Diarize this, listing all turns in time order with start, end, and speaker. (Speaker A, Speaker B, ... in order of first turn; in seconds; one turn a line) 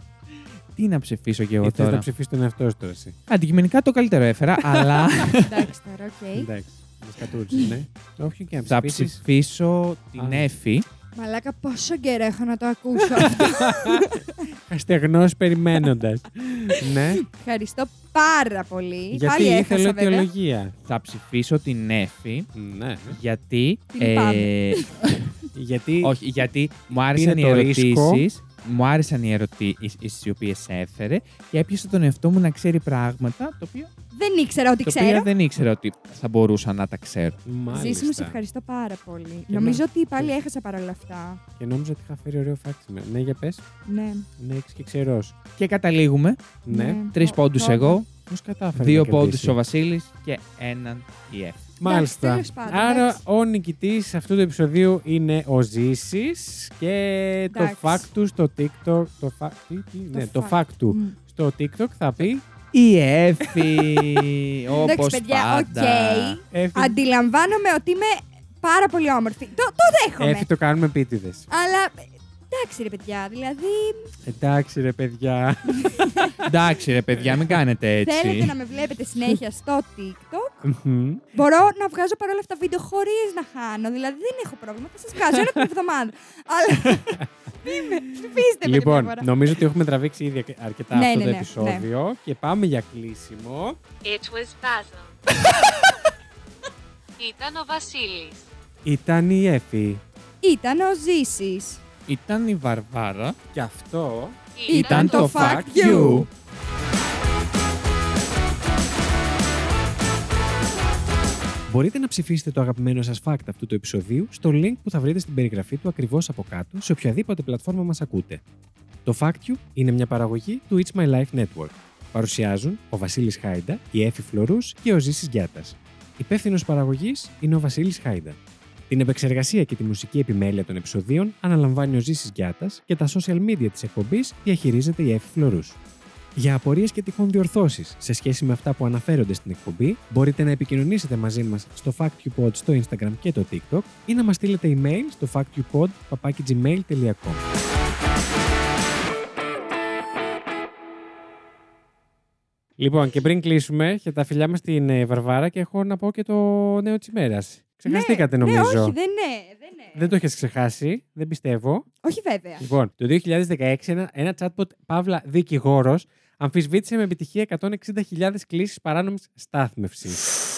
Speaker A: 0.7-2.0
Speaker B: 1.6-3.1
Speaker A: 3.3-5.7
Speaker C: 5.3-6.5
Speaker B: 6.3-9.2
Speaker A: 8.6-10.8
Speaker B: 10.2-10.4
Speaker C: 11.2-14.4
Speaker B: 13.1-14.1
Speaker B: 14.7-17.2
Speaker C: 16.7-20.3
Speaker B: 19.1-20.7
Speaker A: 20.8-22.5
Speaker B: 22.5-23.2
Speaker A: 23.1-25.3
Speaker C: 23.9-25.0
Speaker B: 25.5-26.1
Speaker A: 26.0-33.9
Speaker B: 27.1-28.2
Speaker C: 34.1-35.3
Speaker A: 34.8-37.4
Speaker B: 37.4-38.4
Speaker C: 37.7-41.4
Speaker B: 39.5-40.3
Speaker B: 41.6-43.6
Speaker C: 43.9-44.2
Speaker B: 44.4-45.3
Speaker A: 45.6-46.5
Speaker B: 46.6-47.0
Speaker C: 46.7-48.0
Speaker A: 47.1-48.0
Speaker B: 48.1-49.6
Speaker A: 48.7-51.6
Speaker B: 51.8-62.4
Speaker C: 51.8-53.2
Speaker C: 57.5-58.1
Speaker C: 60.1-61.1
Speaker A: 62.7-66.4
Speaker C: 63.6-64.2
Speaker C: 64.8-70.5
Speaker B: 66.5-67.0
Speaker B: 70.2-71.5
Speaker C: 71.5-74.1
Speaker B: 74.2-76.3
Speaker C: 75.8-76.4
Speaker A: 76.4-78.5
Speaker B: 77.2-77.6
Speaker C: 78.0-80.7
Speaker B: 80.6-81.2
Speaker C: 81.3-89.3
Speaker B: 87.2-93.8
Speaker C: 90.9-91.8
Speaker D: 94.0-95.1
Speaker D: 97.2-98.4
Speaker B: 98.8-100.0
Speaker C: 100.4-101.8
Speaker A: 102.1-103.3
Speaker B: 103.5-104.4
Speaker D: 104.5-105.5
Speaker C: 104.7-106.3
Speaker A: 104.7-106.3
Speaker B: 105.4-105.9
Speaker B: 111.7-118.4
Speaker B: 119.0-128.4
Speaker B: 128.9-135.8
Speaker B: 136.3-147.4
Speaker B: 152.8-158.9
Speaker C: 157.8-160.1
Speaker B: 159.9-161.8
Speaker C: 162.0-162.7
Speaker B: 162.6-170.2